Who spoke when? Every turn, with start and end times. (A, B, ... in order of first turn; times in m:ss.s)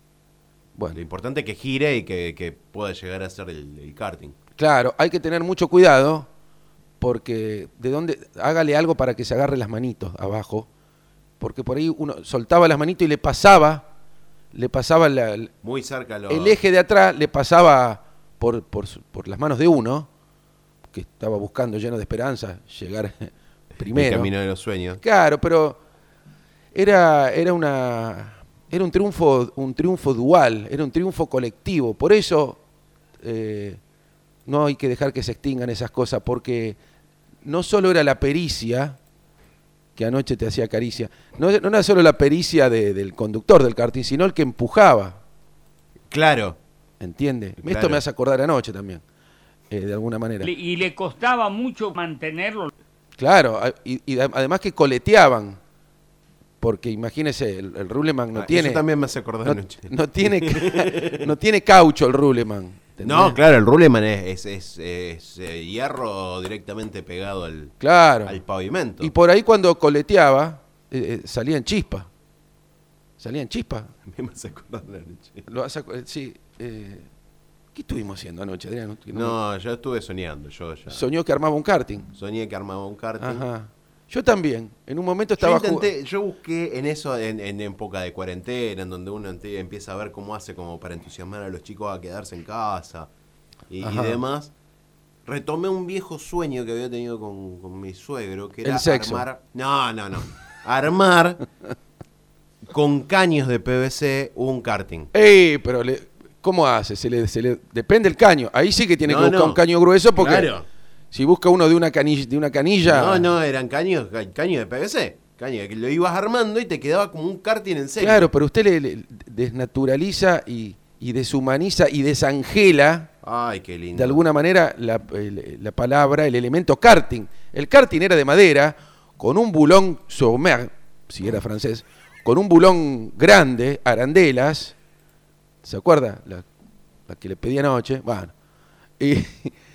0:00.9-0:04.4 A
0:04.6-0:06.3 B
0:07.0-0:10.7 B
0:11.4-0:13.8 B
0:14.5-0:15.5 B
0:15.6-0:16.6 A
0:16.3-0:20.1 B
0:20.9-0:24.3 B
0:23.9-0:25.0 A
0:25.0-0:25.8 B
0:26.7-0:32.6 B
0:33.2-0:33.8 B
0:34.4-0:36.8 B
0:37.4-0:39.0 B
0:40.0-0:45.2 B
0:46.1-0:46.6 A
0:47.0-0:49.0 B
0:47.6-0:48.0 A
0:49.7-0:50.5 B
0:50.4-0:52.7 C
0:53.2-0:55.6 B
0:56.6-0:58.8 B
0:58.3-1:01.3 A
0:59.4-1:03.4 B
1:03.0-1:09.1 A
1:07.8-1:08.4 B
1:09.0-1:12.1 B
1:13.2-1:13.9 B
1:14.0-1:15.4 A
1:15.5-1:17.1 B
1:17.7-1:19.4 B
1:19.1-1:21.0 A
1:20.9-1:22.1 B
1:22.1-1:23.4 A
1:23.2-1:25.9 B
1:25.4-1:33.1 A
1:33.7-1:34.5 A
1:33.8-1:34.2 B
1:35.2-1:41.4 A
1:38.6-1:39.2 B
1:42.6-1:45.1 A
1:45.1-1:50.5 B
1:49.0-1:50.6 A
1:51.1-1:53.3 B
1:52.8-1:58.3 A
1:58.0-2:03.1 B
2:03.2-2:04.2 A
2:03.9-2:14.7 B
2:15.6-2:16.4 B
2:17.1-2:18.3 B
2:19.0-2:19.5 B